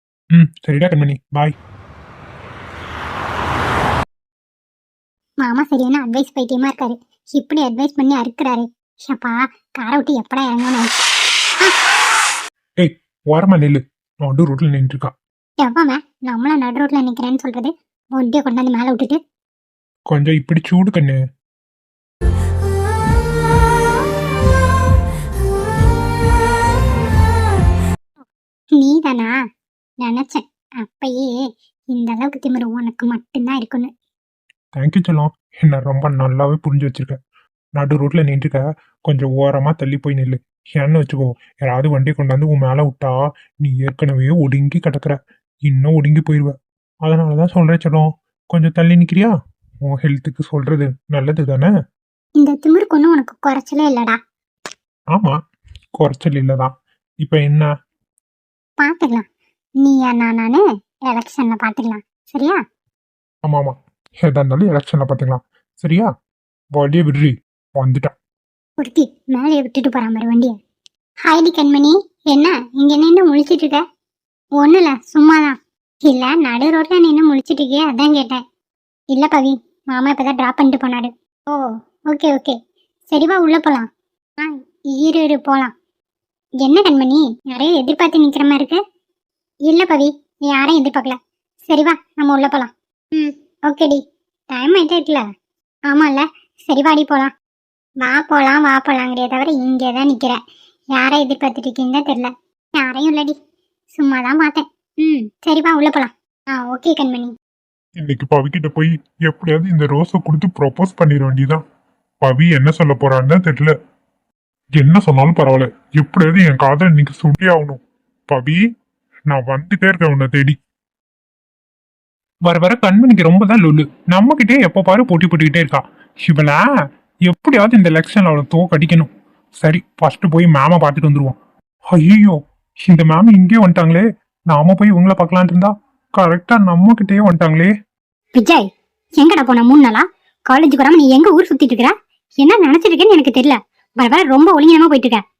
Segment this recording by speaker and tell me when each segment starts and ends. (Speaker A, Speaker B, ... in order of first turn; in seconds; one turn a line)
Speaker A: 0.3-1.6
Speaker B: 5.4-11.0
Speaker A: 12.8-15.1
Speaker B: 15.6-19.2
Speaker A: 20.1-21.2
Speaker B: 28.8-29.4
Speaker B: 30.0-31.3
Speaker B: 31.9-33.9
Speaker A: 34.8-37.2
Speaker A: 37.8-49.3
Speaker A: 49.9-51.7
Speaker B: 52.4-54.2
Speaker A: 56.0-57.7
Speaker B: 58.8-59.3
Speaker B: 59.8-62.6
Speaker A: 63.4-66.1
Speaker A: 66.8-68.2
Speaker B: 68.8-70.5
Speaker B: 71.2-73.8
Speaker B: 74.6-78.4
Speaker B: 79.1-82.6
Speaker B: 83.1-83.9
Speaker B: 84.4-85.7
Speaker B: 86.6-88.8
Speaker B: 89.7-94.0
Speaker B: 94.5-95.2
Speaker B: 95.9-97.3
Speaker B: 98.0-100.4
Speaker B: 100.9-103.4
Speaker B: 104.0-107.3
Speaker A: 108.0-111.6
Speaker A: 112.2-113.7
Speaker A: 114.8-118.6
Speaker A: 119.3-120.6
Speaker A: 122.5-126.6
Speaker A: 127.3-131.4
Speaker A: 131.9-137.7
Speaker B: 138.4-138.7
Speaker B: 139.2-145.2